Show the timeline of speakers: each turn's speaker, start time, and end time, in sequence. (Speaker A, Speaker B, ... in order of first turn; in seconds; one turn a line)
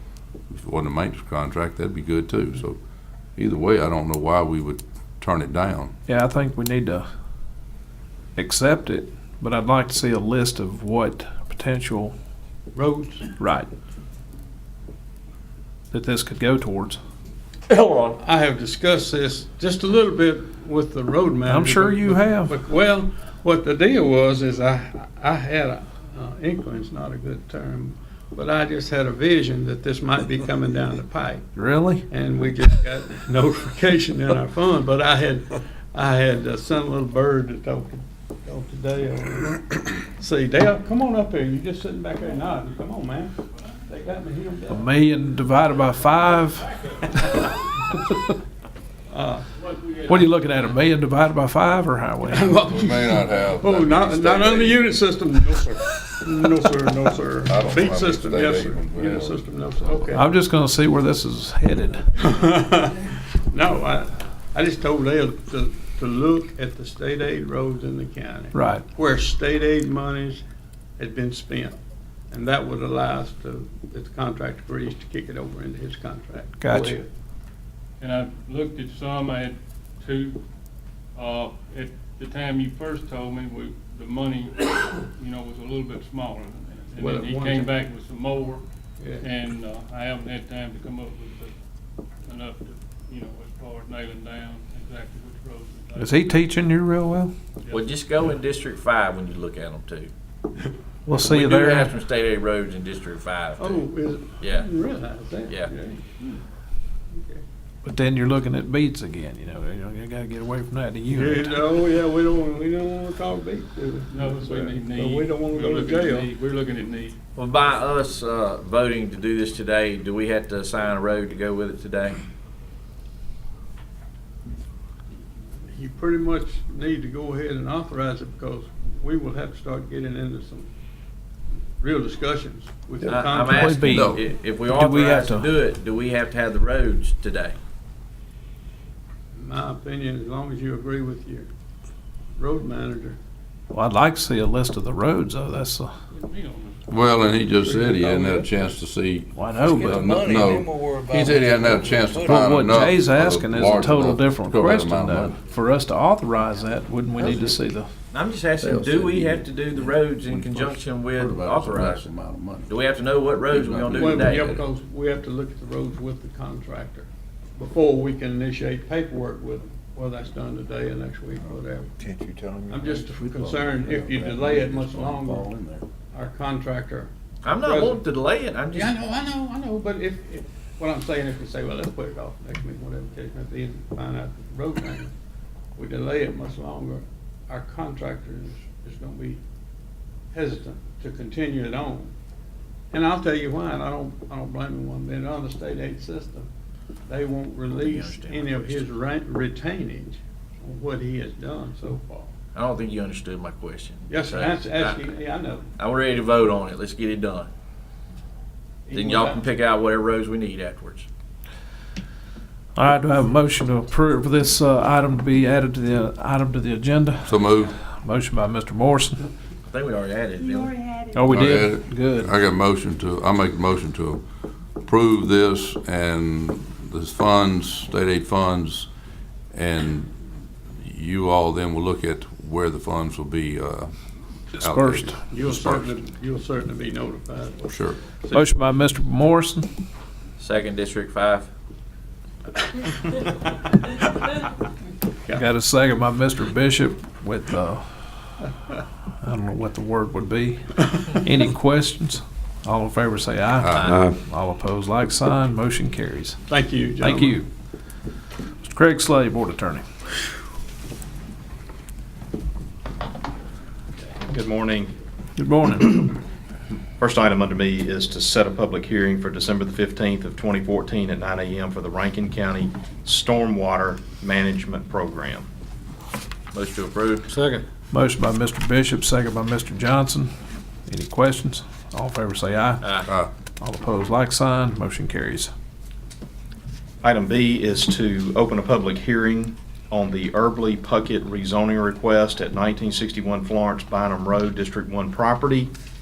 Speaker A: 0.5-2.8
Speaker A: 3.4-5.9
Speaker B: 6.1-7.1
Speaker B: 8.4-12.2
Speaker C: 12.7-13.3
Speaker B: 13.4-13.7
Speaker B: 15.9-17.0
Speaker D: 17.7-18.2
Speaker C: 18.2-31.5
Speaker B: 21.5-22.6
Speaker B: 31.6-32.1
Speaker C: 32.1-44.9
Speaker B: 44.7-47.3
Speaker C: 49.1-49.5
Speaker E: 49.6-50.4
Speaker B: 50.0-52.5
Speaker C: 52.3-60.3
Speaker A: 52.5-54.9
Speaker A: 57.5-59.4
Speaker B: 60.1-62.0
Speaker C: 62.2-70.4
Speaker B: 68.5-68.8
Speaker C: 71.0-71.8
Speaker C: 72.3-77.1
Speaker B: 76.6-77.0
Speaker E: 78.0-80.4
Speaker E: 81.2-88.6
Speaker C: 87.0-87.8
Speaker E: 89.2-91.5
Speaker E: 92.2-96.5
Speaker B: 95.9-97.3
Speaker D: 97.7-100.1
Speaker B: 101.1-102.0
Speaker D: 101.2-103.9
Speaker C: 103.6-106.4
Speaker D: 104.4-104.7
Speaker C: 107.1-107.4
Speaker B: 107.8-111.8
Speaker C: 111.1-116.3
Speaker E: 114.1-117.2
Speaker D: 117.4-122.2
Speaker C: 125.7-130.7
Speaker C: 131.8-133.9
Speaker D: 133.0-137.6
Speaker B: 133.5-135.6
Speaker A: 133.9-134.2
Speaker C: 139.3-141.5
Speaker C: 142.4-143.2
Speaker B: 143.7-145.9
Speaker E: 146.1-147.2
Speaker A: 146.9-155.4
Speaker F: 147.9-148.5
Speaker B: 149.3-150.2
Speaker F: 149.5-152.9
Speaker B: 152.2-157.9
Speaker F: 157.2-157.5
Speaker D: 158.1-162.0
Speaker A: 158.6-159.4
Speaker F: 160.5-160.8
Speaker A: 161.2-162.7
Speaker F: 161.4-162.0
Speaker D: 162.7-164.6
Speaker C: 163.9-171.9
Speaker F: 163.9-164.5
Speaker F: 172.0-175.8
Speaker C: 172.7-175.6
Speaker C: 176.1-178.1
Speaker D: 177.4-178.9
Speaker C: 178.7-185.1
Speaker C: 185.8-189.4
Speaker C: 190.3-192.1
Speaker C: 192.9-196.5
Speaker C: 197.1-202.3
Speaker D: 197.7-199.0
Speaker D: 202.5-205.1
Speaker C: 204.1-205.7
Speaker D: 205.8-207.5
Speaker C: 208.9-209.5
Speaker D: 208.9-211.1
Speaker B: 212.8-219.3
Speaker A: 217.2-217.7
Speaker D: 219.7-221.0
Speaker B: 221.1-222.3
Speaker A: 221.3-224.2
Speaker A: 224.8-228.9
Speaker A: 229.5-235.9
Speaker B: 234.6-235.2
Speaker C: 235.3-238.6
Speaker A: 237.6-238.0
Speaker B: 238.3-239.8
Speaker D: 240.4-241.5
Speaker B: 245.3-248.4
Speaker B: 249.2-256.4
Speaker A: 253.6-254.0
Speaker D: 253.7-254.1
Speaker C: 256.5-257.4
Speaker B: 257.0-257.5
Speaker B: 258.6-259.9
Speaker G: 264.2-264.9
Speaker B: 265.4-266.1
Speaker G: 267.0-275.5
Speaker D: 276.5-277.3
Speaker B: 277.9-280.3
Speaker B: 280.9-282.9
Speaker D: 282.8-283.1
Speaker A: 283.1-283.3
Speaker B: 283.6-285.5
Speaker G: 287.0-295.7